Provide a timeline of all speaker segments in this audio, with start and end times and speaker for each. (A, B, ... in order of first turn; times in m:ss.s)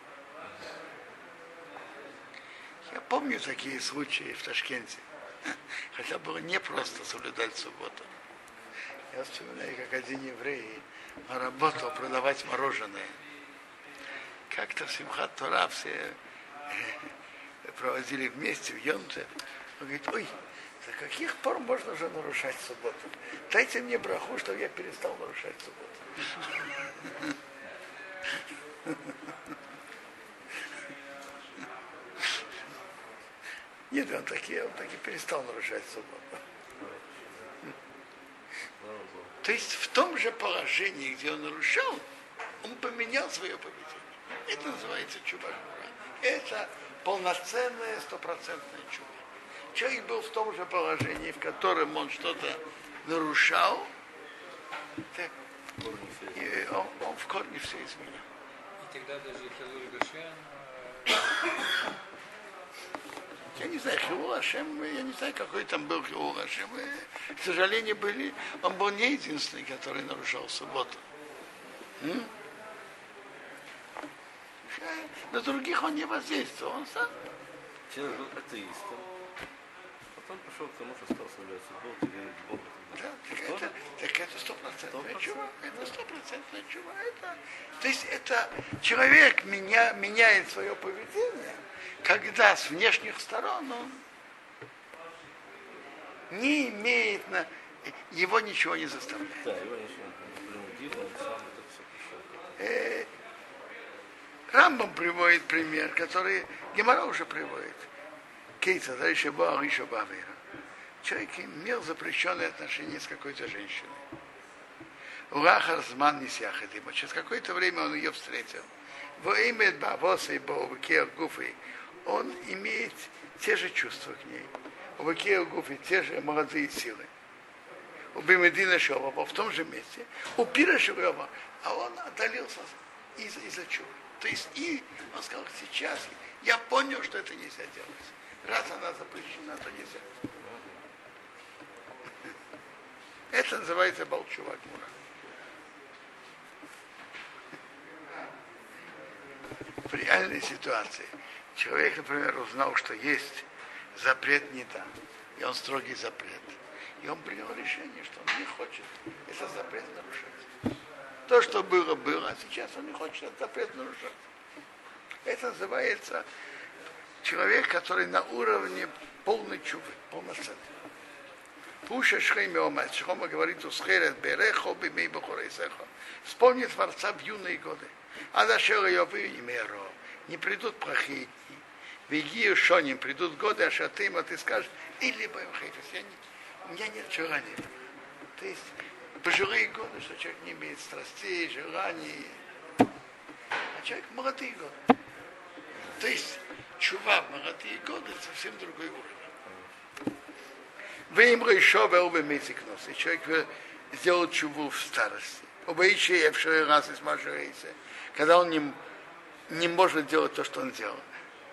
0:02.9-0:08.1 A
0:09.1-0:13.2 A
0:14.5-0:16.2 A
0:16.7-0:17.0 A
0:17.6-0:27.3 A
0:28.9-0:29.2 A
0:33.9-0:36.4 A
0:36.8-0:37.6 B
0:38.8-0:39.4 B
0:39.4-0:42.0 A
0:42.6-0:49.2 A
0:49.7-0:53.9 A
0:55.8-0:56.8 B
0:56.4-0:58.2 A
0:58.8-1:01.3 C
1:03.5-1:11.0 A
1:12.0-1:12.3 A
1:14.7-1:17.1 A
1:17.9-1:19.1 B
1:20.1-1:23.7 B
1:22.9-1:34.0 A
1:24.9-1:25.5 B
1:36.3-1:39.5 A
1:39.4-1:42.5 B
1:42.6-1:43.1 A
1:44.5-1:47.9 A
1:48.6-1:50.4 A
1:51.0-1:54.0 A
1:55.3-2:07.1 A
2:08.1-2:20.1 A
2:20.4-2:20.8 B
2:23.3-2:24.9 A
2:29.9-2:40.5 A
2:41.3-2:44.2 A
2:45.3-2:46.2 A
2:47.2-2:50.7 A
2:51.8-3:07.7 A
3:08.4-3:12.4 A
3:13.7-3:14.8 A
3:15.9-3:19.3 A
3:19.4-3:19.7 B
3:21.1-3:28.8 A
3:29.5-3:31.1 A